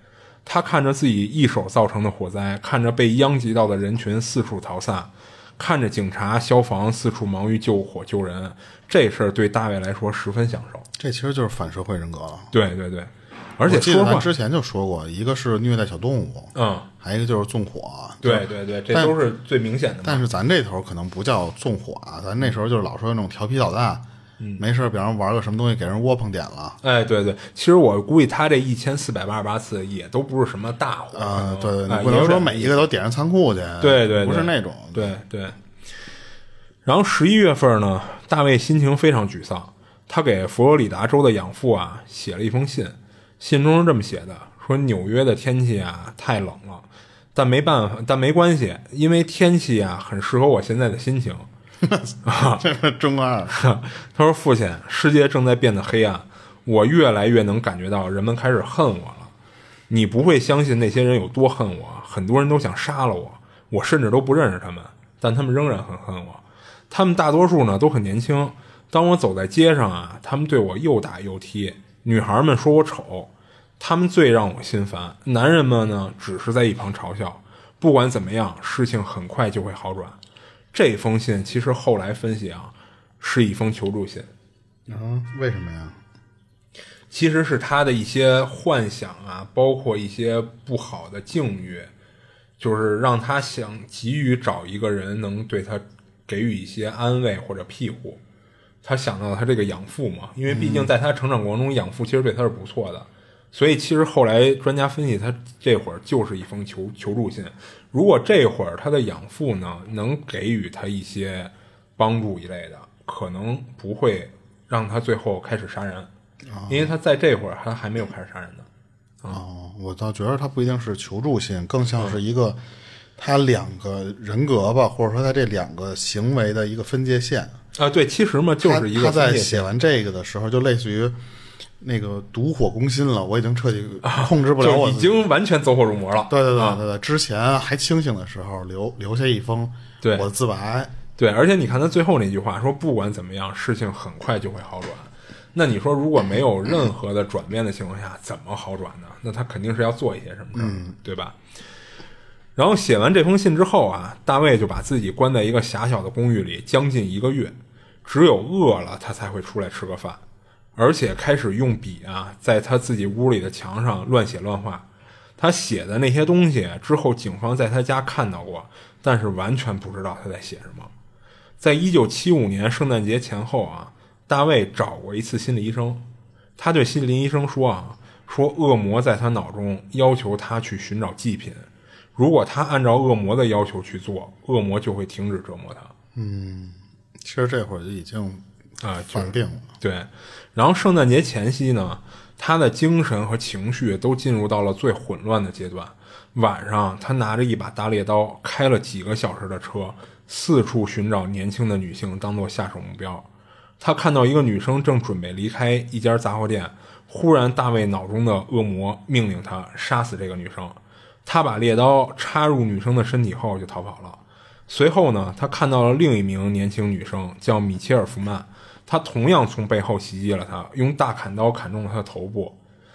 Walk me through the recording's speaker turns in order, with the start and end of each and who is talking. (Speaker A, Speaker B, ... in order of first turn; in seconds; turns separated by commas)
Speaker A: 0.5-10.8, Speaker B: 11.0-12.5, Speaker A: 12.5-14.3, Speaker B: 13.7-19.1, Speaker A: 16.5-16.9, Speaker A: 18.2-20.2, Speaker B: 20.0-24.0, Speaker B: 24.6-26.8, Speaker A: 26.8-32.9, Speaker B: 31.1-35.2, Speaker A: 33.8-35.6, Speaker A: 36.8-51.5, Speaker B: 51.8-53.5, Speaker A: 52.2-52.6, Speaker A: 53.5-59.3, Speaker A: 59.9-80.2, Speaker A: 80.7-84.3, Speaker B: 84.9-86.0, Speaker A: 87.1-91.9, Speaker A: 92.6-98.2, Speaker A: 98.8-116.1, Speaker B: 100.5-100.9, Speaker B: 116.5-116.9, Speaker A: 116.7-118.7, Speaker B: 119.3-122.6, Speaker B: 123.2-127.5, Speaker A: 127.8-129.7, Speaker B: 128.6-131.2, Speaker B: 131.8-135.2, Speaker A: 134.0-136.8, Speaker B: 136.3-140.9, Speaker A: 140.0-140.3, Speaker A: 141.2-151.4, Speaker B: 150.5-150.9, Speaker A: 152.6-160.2, Speaker A: 160.8-164.9, Speaker A: 165.4-170.9, Speaker A: 171.6-176.0, Speaker A: 176.6-185.9, Speaker B: 186.1-188.4, Speaker A: 188.8-203.3, Speaker B: 189.1-189.7, Speaker A: 203.8-222.6